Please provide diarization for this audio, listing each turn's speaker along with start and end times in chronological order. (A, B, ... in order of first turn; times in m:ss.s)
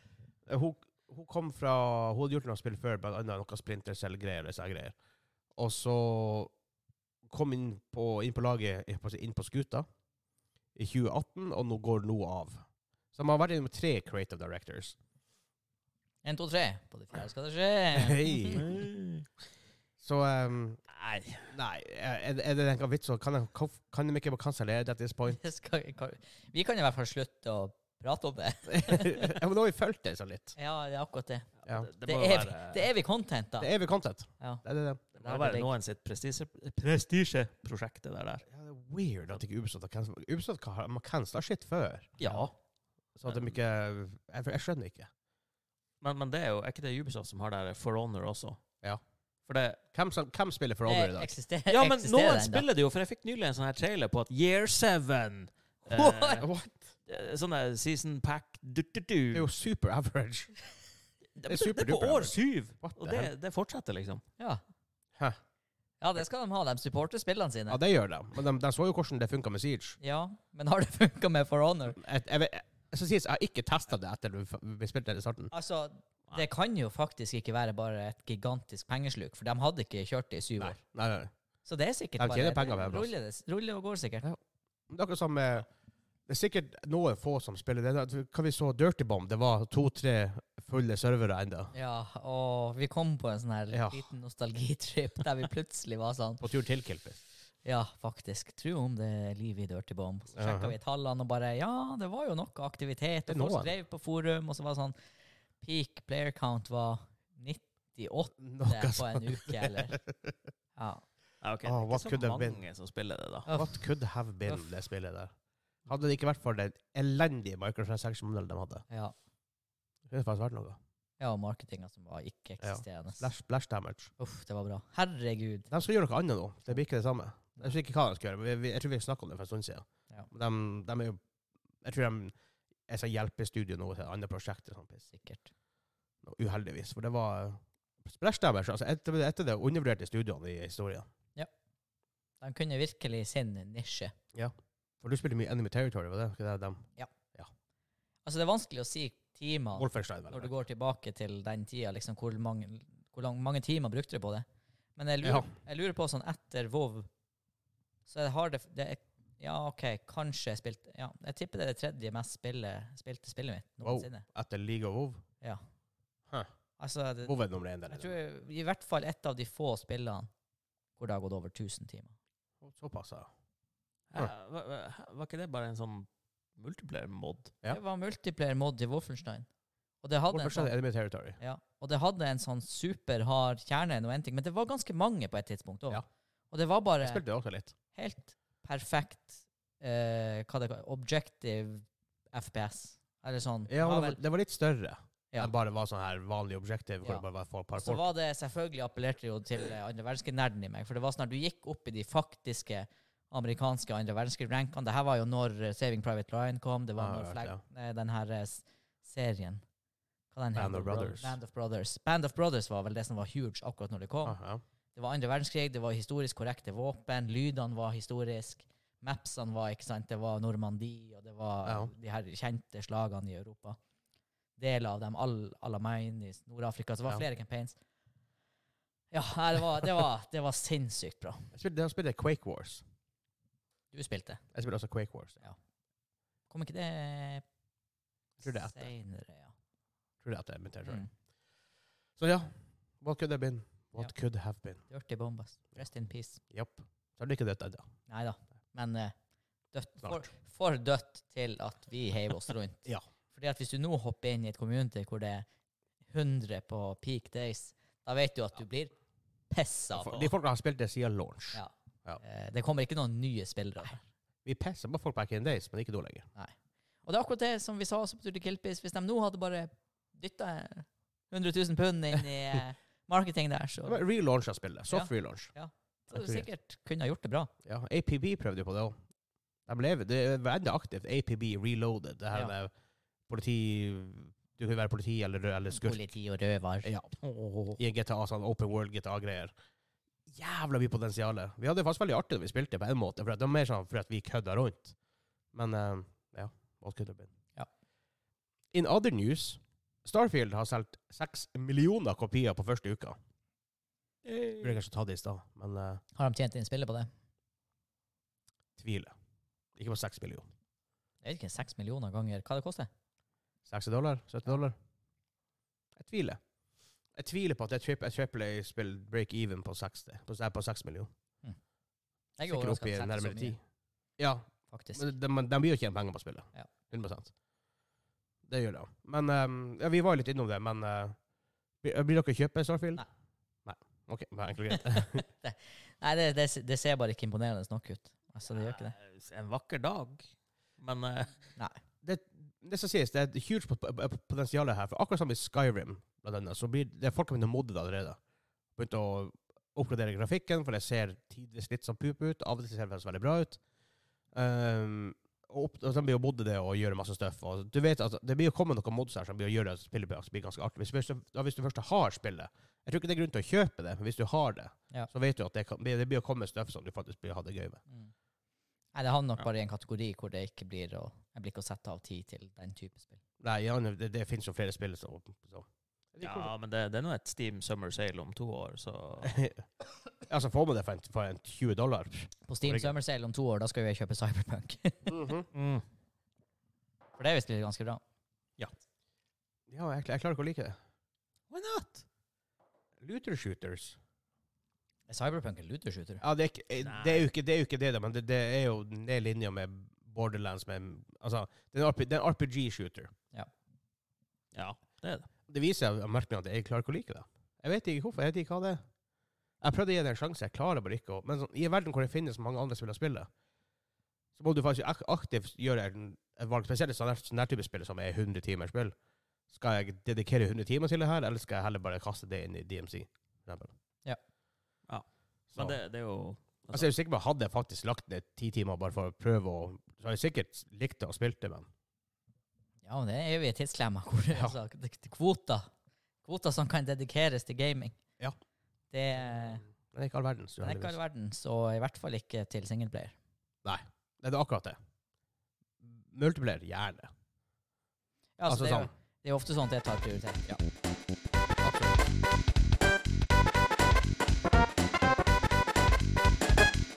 0:00.5-0:04.9 A
0:05.6-0:06.5 A
0:07.2-0:09.8 A
0:10.7-0:12.6 A
0:13.1-0:15.0 A
0:16.2-0:18.6 B
0:17.9-0:18.8 A
0:18.6-0:19.2 C
0:20.0-0:20.8 A
0:20.9-0:21.5 C
0:21.5-0:25.4 A
0:25.3-0:29.4 B
0:28.7-0:30.5 A
0:30.6-0:31.5 B
0:31.6-0:32.9 C
0:32.0-0:33.7 B
0:33.6-0:35.1 A
0:35.2-0:35.7 B
0:35.2-0:38.4 C
0:38.5-0:42.2 A
0:42.2-0:42.5 C
0:42.2-0:42.5 B
0:43.2-0:45.1 A
0:46.0-0:48.6 C
0:49.5-0:49.8 C
0:49.9-0:51.3 A
0:50.8-0:52.6 B
0:51.7-0:56.5 C
0:55.9-0:56.4 B
0:56.4-0:56.9 A
0:57.1-0:59.5 C
0:59.3-1:00.5 A
1:01.4-1:04.2 C
1:01.4-1:03.3 A
1:06.0-1:07.8 B
1:07.7-1:10.0 A
1:10.0-1:12.0 B
1:12.0-1:15.5 A
1:15.5-1:20.8 B
1:20.6-1:21.3 A
1:21.6-1:24.2 B
1:22.2-1:23.1 A
1:24.9-1:25.7 A
1:26.3-1:31.7 A
1:31.7-1:36.4 B
1:33.7-1:34.0 A
1:36.4-1:37.2 A
1:37.6-1:44.9 B
1:40.3-1:40.7 A
1:43.3-1:43.7 A
1:45.6-1:50.0 B
1:48.4-1:50.3 A
1:50.8-1:51.0 B
1:51.4-1:53.5 C
1:51.6-1:52.6 A
1:53.5-1:53.8 B
1:53.5-1:55.3 A
1:55.9-1:58.8 A
2:00.1-2:00.8 A
2:01.2-2:03.3 B
2:02.6-2:04.1 A
2:04.2-2:05.7 B
2:05.7-2:11.2 A
2:11.8-2:12.3 A
2:12.9-2:15.1 A
2:15.1-2:15.5 B
2:16.2-2:21.1 A
2:22.4-2:24.1 B
2:24.3-2:27.5 A
2:28.2-2:34.4 B
2:29.8-2:30.5 A
2:35.0-2:37.1 B
2:35.2-2:35.5 A
2:38.1-2:44.2 B
2:43.8-2:45.2 A
2:46.8-2:47.3 B
2:47.2-2:48.1 A
2:47.9-2:50.3 B
2:51.0-2:52.1 B
2:52.6-2:53.3 A
2:54.1-2:57.5 C
2:57.7-2:59.5 B
3:00.0-3:00.7 B
3:00.3-3:01.4 A
3:01.4-3:07.2 B
3:07.0-3:07.7 A
3:07.9-3:14.2 B
3:13.7-3:18.0 A
3:17.7-3:29.6 B
3:27.0-3:27.6 A
3:30.3-3:34.4 B
3:30.5-3:31.4 A
3:34.2-3:34.6 A
3:34.9-3:43.8 B
3:41.6-3:41.9 A
3:44.6-3:47.8 B
3:49.1-3:51.5 B
3:51.5-3:52.8 A
3:53.9-3:54.4 B
3:54.5-3:55.4 A
3:56.5-3:57.4 B
3:58.4-3:58.9 A
3:58.4-3:59.5 B
4:00.2-4:01.0 A
4:02.2-4:04.8 A
4:04.9-4:06.4 B
4:06.5-4:07.8 A
4:08.1-4:09.1 B
4:09.7-4:15.4 B
4:10.0-4:10.3 A
4:16.1-4:18.9 B
4:19.5-4:20.3 B
4:19.9-4:22.2 A
4:21.5-4:24.0 B
4:24.4-4:26.3 A
4:27.0-4:34.0 B
4:33.8-4:35.5 A
4:34.9-4:37.5 B
4:36.1-4:36.5 A
4:37.6-4:39.0 A
4:39.7-4:42.7 A
4:43.3-4:46.0 A
4:45.7-4:46.9 B
4:46.8-4:47.1 A
4:47.2-4:47.8 C
4:47.8-4:49.5 A
4:50.3-4:55.0 A
4:55.5-4:57.3 A
4:58.7-5:03.2 A
5:04.2-5:04.7 C
5:04.6-5:06.0 A
5:06.2-5:07.1 B
5:08.8-5:09.1 A
5:09.8-5:10.5 A
5:11.2-5:12.9 B
5:13.6-5:14.8 A
5:16.0-5:16.4 A
5:17.1-5:21.1 A
5:22.4-5:23.6 B
5:22.5-5:23.6 A
5:24.2-5:27.3 A
5:24.7-5:25.0 B
5:28.5-5:31.2 A
5:31.8-5:33.0 A
5:33.6-5:35.2 A
5:34.7-5:39.0 B
5:38.5-5:41.4 C
5:42.0-5:48.2 A
5:48.8-5:53.6 A
5:54.3-6:07.8 A
6:08.9-6:13.2 B
6:13.4-6:16.5 A
6:16.2-6:19.4 C
6:19.2-6:19.6 A
6:20.3-6:22.9 A
6:22.5-6:25.3 B
6:25.1-6:25.5 A
6:25.5-6:25.8 C
6:27.2-6:28.0 B
6:29.7-6:30.8 A
6:31.5-6:32.0 C
6:33.0-6:34.0 A
6:35.1-6:36.2 B
6:36.2-6:43.1 A
6:36.8-6:37.3 C
6:44.5-6:45.3 C
6:45.5-6:48.8 A
6:49.6-6:53.3 A
6:54.4-6:58.9 A
6:59.5-7:03.7 A
7:04.9-7:06.9 C
7:06.7-7:11.7 A
7:12.8-7:15.7 B
7:16.2-7:18.0 B
7:18.9-7:19.6 B
7:19.7-7:21.0 A
7:20.6-7:23.2 B
7:23.6-7:24.8 A
7:25.8-7:27.1 A
7:28.4-7:30.4 B
7:28.5-7:28.9 A
7:31.6-7:32.0 A